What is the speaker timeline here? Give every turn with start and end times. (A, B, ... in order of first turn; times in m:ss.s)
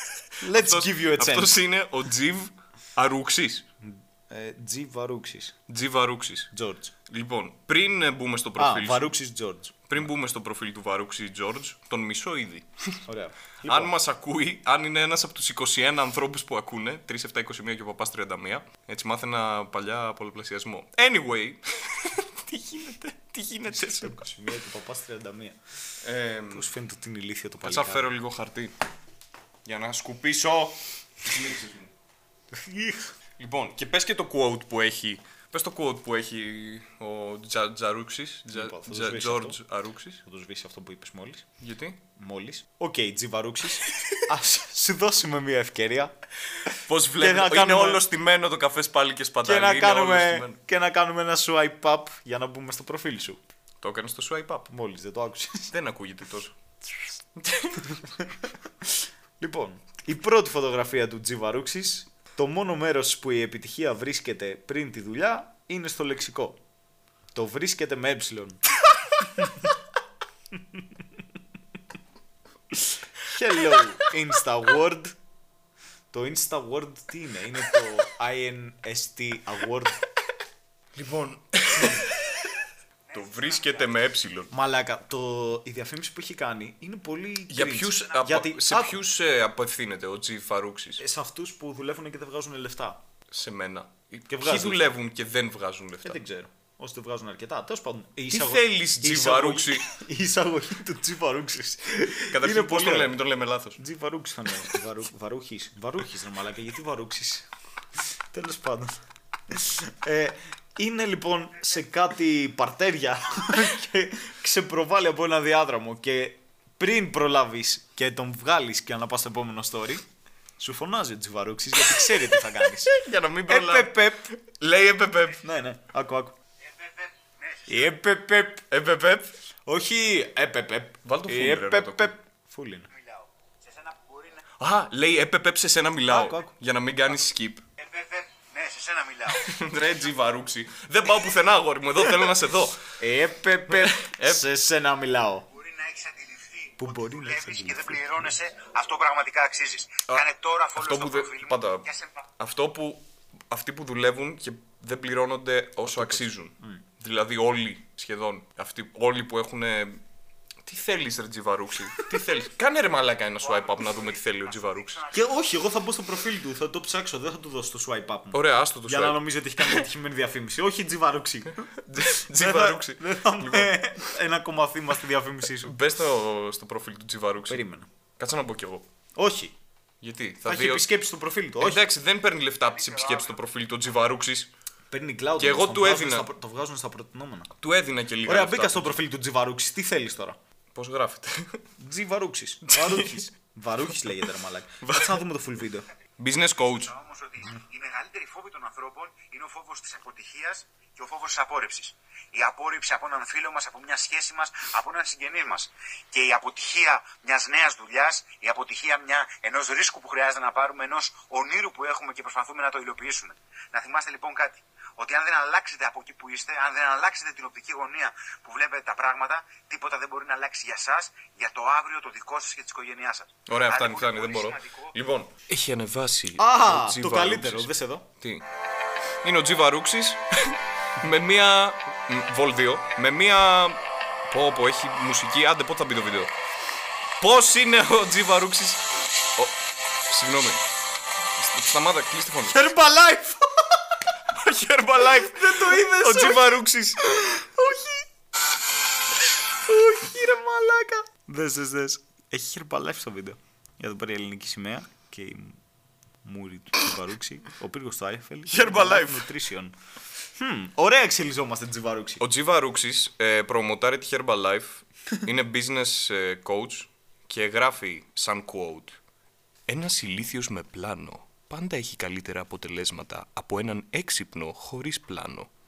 0:00.4-0:01.6 A
0:00.4-0:03.6 B
0:03.8-0:05.6 A
0:05.7-0:06.5 B
0:06.5-0:06.9 A
0:07.1-0:09.1 B
0:08.6-0:10.0 A
0:09.9-0:13.0 B
0:13.1-0:13.9 A
0:13.7-0:24.2 B
0:23.7-0:25.6 A
0:26.0-0:26.7 B
0:26.5-0:28.0 A
0:27.6-0:28.8 B
0:29.6-0:31.9 B
0:32.5-0:33.1 A
0:33.4-0:40.2 B
0:38.5-0:39.6 A
0:40.2-0:41.4 A
0:41.6-0:42.0 B
0:42.2-0:46.1 A
0:46.6-0:50.6 B
0:47.2-0:48.0 A
0:49.4-0:53.4 A
0:53.8-0:54.7 B
0:54.7-0:55.7 A
0:55.7-0:56.5 B
0:57.4-0:58.0 B
0:58.0-1:06.6 A
1:07.3-1:09.8 A
1:10.5-1:10.8 A
1:12.7-1:15.2 A
1:16.1-1:20.0 A
1:20.9-1:22.3 B
1:23.1-1:23.9 C
1:23.1-1:24.5 B
1:24.5-1:29.0 A
1:27.5-1:31.0 B
1:31.0-1:33.0 A
1:33.3-1:36.2 B
1:34.3-1:34.9 A
1:36.0-1:43.2 A
1:38.3-1:39.9 B
1:42.2-1:43.8 B
1:43.8-2:00.0 A
2:00.6-2:02.9 A
2:02.6-2:05.4 B
2:03.5-2:04.3 A
2:05.4-2:06.4 A
2:06.6-2:08.0 C
2:07.7-2:08.6 A
2:08.7-2:09.3 B
2:09.6-2:12.9 A
2:11.0-2:12.1 B
2:13.0-2:14.4 C
2:14.6-2:17.6 B
2:16.1-2:16.5 A
2:17.8-2:19.5 C
2:19.3-2:22.9 B
2:23.0-2:25.5 A
2:23.7-2:24.4 B
2:25.5-2:32.2 C
2:26.8-2:28.0 A
2:30.1-2:31.9 B
2:32.4-2:40.0 B
2:35.8-2:36.8 A
2:40.6-2:45.0 B
2:43.4-2:45.3 C
2:45.1-2:55.8 A
2:48.3-2:49.8 B
2:51.7-2:53.9 B
2:55.6-2:57.6 B
2:57.5-2:57.9 A
2:58.2-2:58.9 B
2:59.2-2:59.5 A
3:00.0-3:00.8 B
3:00.4-3:01.9 A
3:01.6-3:04.5 B
3:02.7-3:03.4 C
3:04.9-3:07.5 A
3:05.4-3:06.3 B
3:07.6-3:09.0 B
3:08.2-3:10.4 A
3:10.7-3:11.6 B
3:11.8-3:15.8 A
3:12.7-3:13.2 B
3:14.8-3:15.2 B
3:16.2-3:16.9 B
3:16.8-3:44.9 C
3:43.5-3:48.4 B
3:46.4-3:48.0 A
3:49.2-3:56.3 B
3:57.2-3:59.6 B
4:00.1-4:00.6 B
4:01.4-4:02.7 B
4:02.5-4:04.0 A
4:04.2-4:07.2 B
4:05.0-4:08.0 A
4:09.7-4:15.6 A
4:16.2-4:19.7 A
4:18.5-4:19.3 B
4:20.4-4:22.2 A
4:22.2-4:29.0 B
4:29.7-4:35.5 B